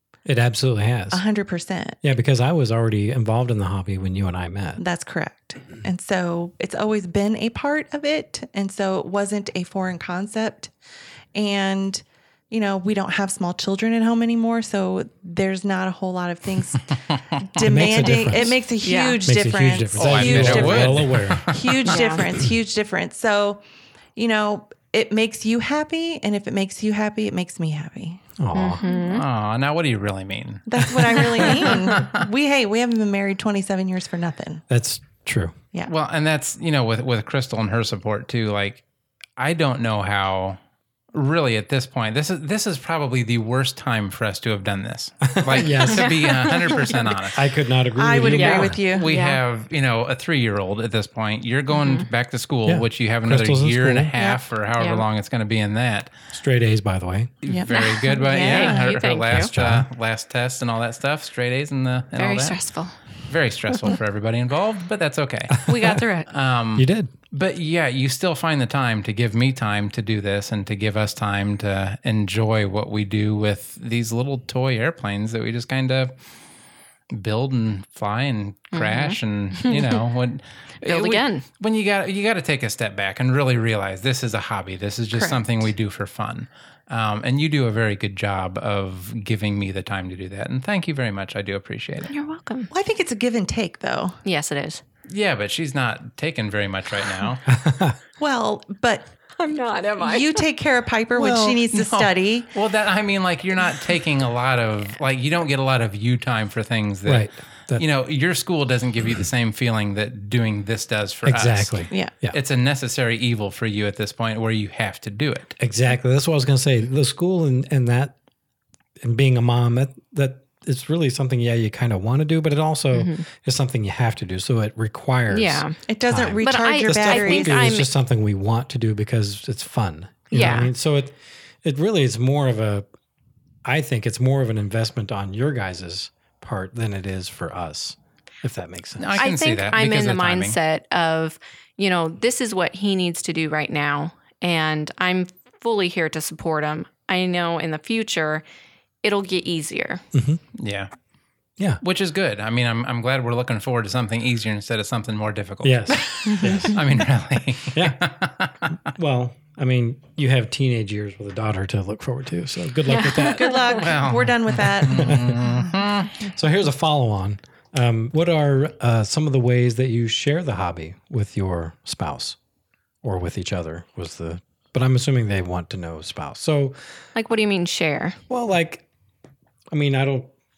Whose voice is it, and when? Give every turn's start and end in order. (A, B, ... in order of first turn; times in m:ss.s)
0:00.3-0:01.2 A
0:01.1-0:02.0 B
0:02.0-0:04.8 A
0:04.8-0:10.7 B
0:11.4-0:23.6 B
0:17.6-0:18.7 A
0:18.8-0:19.2 C
0:19.2-0:21.6 A
0:20.0-0:21.8 D
0:21.9-0:22.2 C
0:24.2-0:28.2 B
0:28.4-0:28.8 A
0:28.5-0:29.2 C
0:29.1-0:32.1 D
0:30.7-0:34.6 B
0:34.7-0:35.6 A
0:35.9-0:38.8 D
0:39.4-0:40.6 D
0:41.1-0:47.4 D
0:45.2-0:46.1 A
0:45.9-0:47.1 C
0:47.3-0:48.8 A
0:48.0-0:49.1 B
0:48.4-0:49.4 C
0:48.8-0:56.1 D
0:51.7-0:52.1 C
0:52.7-0:54.2 A
0:54.8-0:55.0 C
0:56.3-0:57.3 A
0:57.4-1:02.6 D
0:57.5-0:58.9 B
0:57.7-0:59.5 C
0:59.3-0:59.9 A
1:02.2-1:03.0 C
1:03.3-1:05.8 D
1:05.6-1:06.0 A
1:05.7-1:06.3 C
1:06.3-1:16.1 D
1:06.8-1:07.1 A
1:17.1-1:32.1 D
1:18.7-1:20.0 C
1:20.8-1:21.4 C
1:25.1-1:25.4 B
1:32.1-1:32.7 C
1:32.7-1:34.2 B
1:34.2-1:34.8 C
1:35.1-1:37.4 D
1:37.5-1:38.0 A
1:38.2-1:39.1 B
1:39.4-1:40.4 C
1:40.0-1:42.5 B
1:41.2-1:41.6 A
1:41.7-1:55.5 D
1:47.0-1:47.8 A
1:51.3-1:52.4 A
1:55.6-1:58.2 A
1:59.0-2:12.9 A
2:02.9-2:03.3 C
2:05.3-2:05.8 C
2:05.9-2:07.8 B
2:06.4-2:07.9 C
2:10.3-2:10.7 C
2:13.6-2:19.2 A
2:19.0-2:20.6 D
2:19.2-2:28.4 C
2:29.0-2:30.0 C
2:30.1-2:30.4 A
2:30.6-2:30.9 D
2:31.8-2:38.8 D
2:35.6-2:36.8 A
2:36.2-2:36.7 C
2:37.7-2:38.0 A
2:38.9-2:43.6 A
2:42.9-2:43.8 C
2:43.2-2:45.4 B
2:43.7-2:46.1 D
2:44.8-2:45.4 A
2:46.2-2:52.4 A
2:53.0-2:56.8 A
2:57.2-2:58.2 C
2:58.3-2:58.8 A
2:59.7-3:00.3 A